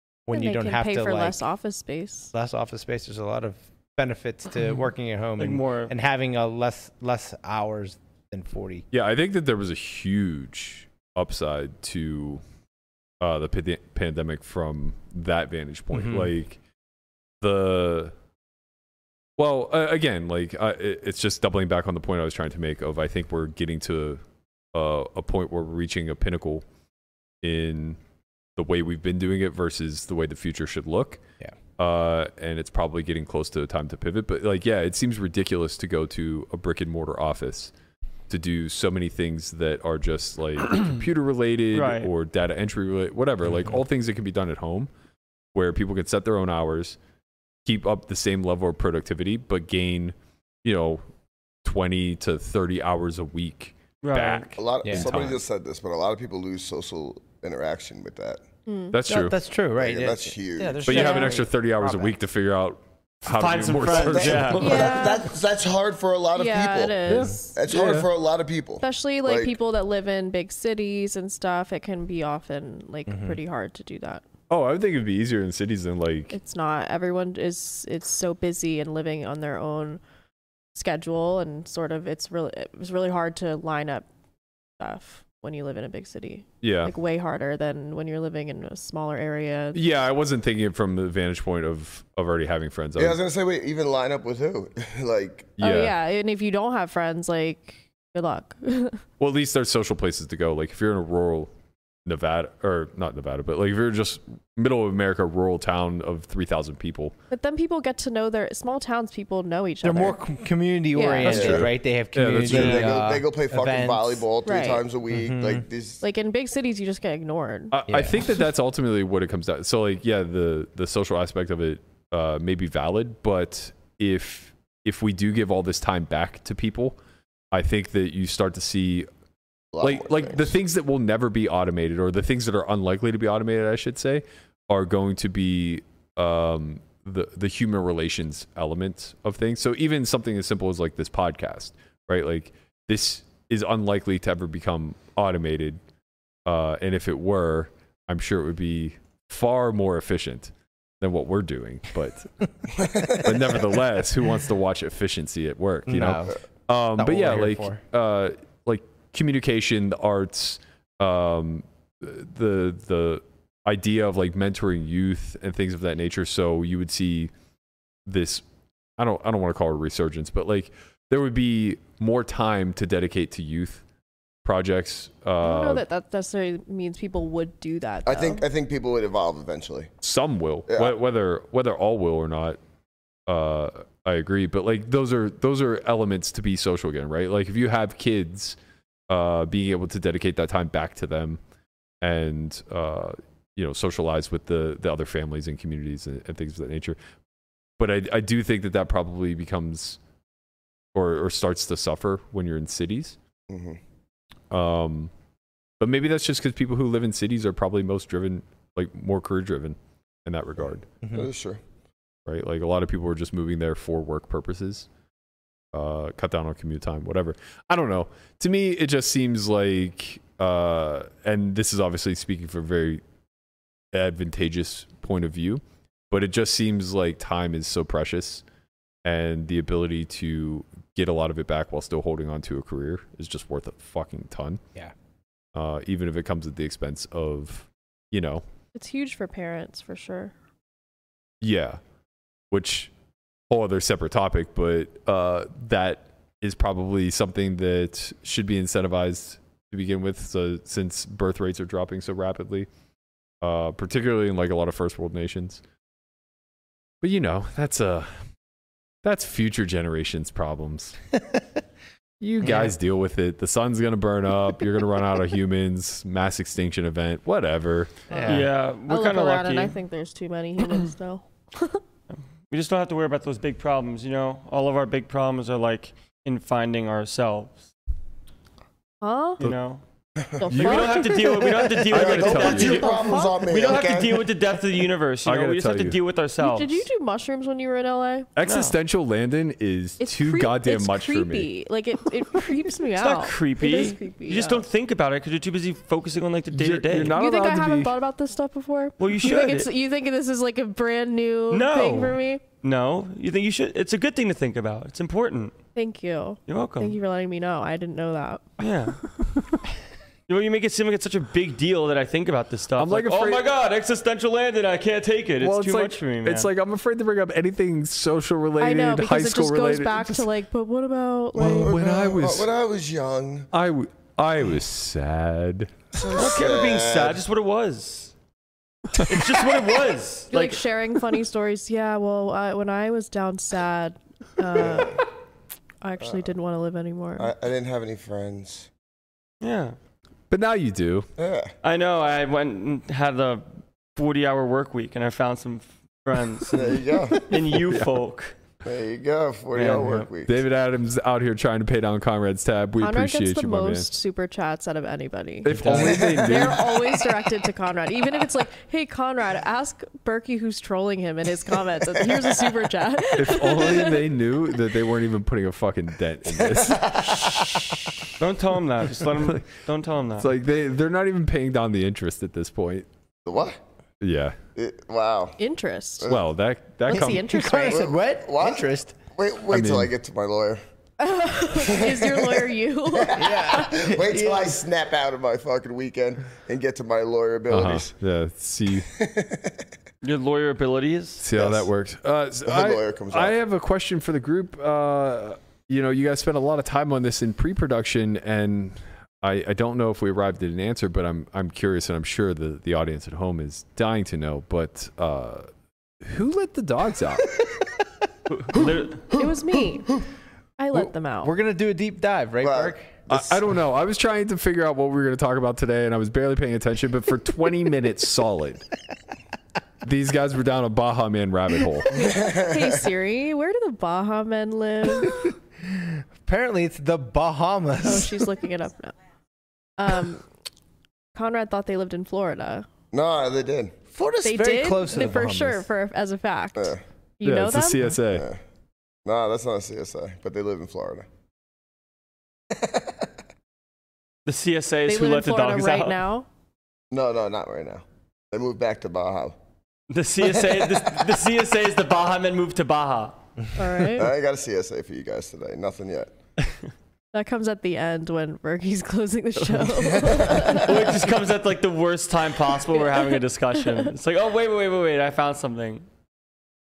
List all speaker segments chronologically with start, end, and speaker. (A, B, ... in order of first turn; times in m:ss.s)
0:00.3-0:01.4 A
0:00.3-0:02.3 B
0:02.3-0:08.9 A
0:05.4-0:05.9 C
0:08.9-0:12.4 D
0:13.2-0:16.6 D
0:15.9-0:16.3 A
0:17.4-0:18.1 D
0:19.4-0:24.2 D
0:24.7-0:26.6 D
0:27.4-0:28.0 D
0:28.6-0:31.2 D
0:31.8-0:37.7 D
0:38.3-0:44.9 D
0:41.7-0:42.1 C
0:45.5-0:47.0 D
0:47.6-0:51.0 D
0:51.6-0:55.4 D
0:54.0-0:54.5 C
0:54.6-0:58.4 E
0:54.8-0:55.1 A
0:58.7-0:59.0 B
0:58.9-0:59.4 D
0:59.0-1:02.1 A
0:59.8-1:01.0 E
1:00.9-1:04.8 D
1:00.9-1:01.3 B
1:03.3-1:04.9 C
1:03.9-1:09.6 E
1:04.6-1:05.3 B
1:06.4-1:07.6 B
1:07.1-1:08.1 D
1:08.8-1:14.2 B
1:13.1-1:13.4 A
1:14.5-1:16.4 D
1:16.3-1:20.0 B
1:20.8-1:24.1 B
1:24.8-1:29.8 B
1:26.6-1:26.9 D
1:29.7-1:33.2 D
1:33.0-1:35.6 E
1:35.6-1:36.0 D
1:35.6-1:39.0 B
1:39.2-1:41.5 D
1:42.0-1:47.2 D
1:47.3-1:50.2 B
1:49.8-1:54.2 A
1:50.9-1:51.4 B
1:51.2-1:53.0 D
1:51.3-1:51.7 E
1:52.4-1:56.0 E
1:54.4-1:54.8 B
1:55.1-1:55.6 A
1:56.0-1:57.8 B
1:57.7-2:07.0 D
1:57.9-1:58.2 A
2:07.5-2:09.1 D
2:09.7-2:10.6 E
2:09.8-2:25.8 D
2:26.5-2:32.3 D
2:32.8-2:33.3 E
2:33.1-2:47.3 D
2:35.9-2:36.4 A
2:37.0-2:37.8 A
2:48.1-2:48.4 D
2:49.0-2:53.8 D
2:54.4-2:55.8 D
2:55.4-2:58.4 B
2:58.1-2:59.9 E
3:00.0-3:02.6 D
3:00.7-3:01.0 E
3:03.3-3:08.6 D
3:09.1-3:11.4 D
3:12.0-3:17.0 D
3:17.8-3:20.0 D
3:20.9-3:23.2 D
3:23.5-3:23.8 E
3:24.5-3:25.1 D
3:25.8-3:30.9 D
3:31.0-3:31.3 A
3:31.1-3:31.6 E
3:32.3-3:34.9 D
3:35.7-3:43.0 D
3:43.9-3:48.4 D
3:49.0-3:54.6 D
3:55.6-3:58.4 D
3:58.7-4:00.3 B
4:01.4-4:01.8 D
4:02.5-4:02.9 D
4:03.5-4:12.7 D
4:13.4-4:15.6 D
4:17.0-4:18.2 D
4:19.0-4:21.0 D
4:22.2-4:28.0 D
4:22.4-4:22.7 A
4:28.1-4:31.8 B
4:28.1-4:28.4 A
4:28.3-4:29.7 C
4:32.5-4:37.7 C
4:39.0-4:39.4 B
4:39.4-4:39.8 C
4:40.4-4:41.5 B
4:40.5-4:41.3 D
4:40.5-4:46.8 C
4:41.9-4:44.3 E
4:41.9-4:42.8 D
4:42.3-4:43.7 B
4:45.2-4:46.0 D
4:46.4-4:48.3 B
4:48.4-4:51.5 D
4:48.4-4:48.8 C
4:50.0-4:54.6 B
4:53.0-4:57.2 C
4:56.5-4:57.9 D
4:57.1-5:02.4 B
4:59.0-4:59.7 C
5:01.5-5:05.5 C
5:05.8-5:08.4 B
5:06.5-5:07.0 C
5:08.6-5:09.0 C
5:10.3-5:16.5 C
5:12.8-5:13.5 D
5:15.4-5:20.3 D
5:18.6-5:21.7 B
5:21.4-5:22.5 D
5:21.4-5:23.5 E
5:23.5-5:26.0 D
5:25.9-5:27.2 E
5:26.1-5:28.1 C
5:29.0-5:30.6 C
5:30.3-5:35.1 B
5:34.6-5:35.0 E
5:35.8-5:37.3 B
5:37.2-5:38.7 E
5:39.4-5:39.8 C
5:40.3-5:41.1 D
5:41.2-5:41.5 E
5:41.6-5:48.4 C
5:46.5-5:47.2 E
5:48.6-5:50.4 E
5:50.2-5:53.9 D
5:52.8-6:04.1 B
5:55.4-5:56.8 D
5:55.5-5:56.0 A
5:55.7-5:56.5 E
6:03.2-6:07.7 D
6:06.4-6:07.4 E
6:08.2-6:10.3 C
6:10.2-6:12.9 D
6:13.3-6:13.6 E
6:14.0-6:14.4 D
6:14.6-6:15.4 E
6:15.4-6:16.1 B
6:16.1-6:17.3 D
6:16.9-6:17.9 B
6:16.9-6:19.0 A
6:17.7-6:20.6 E
6:19.5-6:19.9 D
6:21.0-6:23.8 B
6:21.6-6:27.9 E
6:23.2-6:24.6 A
6:27.5-6:28.9 D
6:28.8-6:29.7 E
6:30.0-6:31.2 C
6:31.2-6:45.5 D
6:31.3-6:31.7 E
6:32.5-6:33.3 E
6:46.0-6:47.4 D
6:48.3-6:49.1 C
6:49.1-6:50.0 B
6:50.6-6:51.3 B
6:50.7-6:53.2 A
6:52.4-6:52.8 E
6:53.1-6:58.6 D
6:59.8-7:02.0 D
7:01.9-7:05.2 B
7:02.0-7:02.8 E
7:05.0-7:08.3 A
7:07.8-7:09.0 B
7:09.8-7:10.2 B
7:11.1-7:12.7 B
7:12.9-7:13.8 E
7:13.9-7:15.7 A
7:14.2-7:18.0 B
7:17.2-7:18.3 D
7:18.1-7:18.4 E
7:19.0-7:21.1 E
7:22.5-7:23.1 E
7:24.3-7:26.0 C
7:24.9-7:26.3 B
7:26.9-7:29.4 E
7:29.9-7:33.2 C
7:30.5-7:30.9 E
7:33.6-7:34.1 B
7:34.0-7:36.1 E
7:37.1-7:40.8 B
7:39.8-7:40.7 E
7:40.2-7:45.9 C
7:42.8-7:43.1 B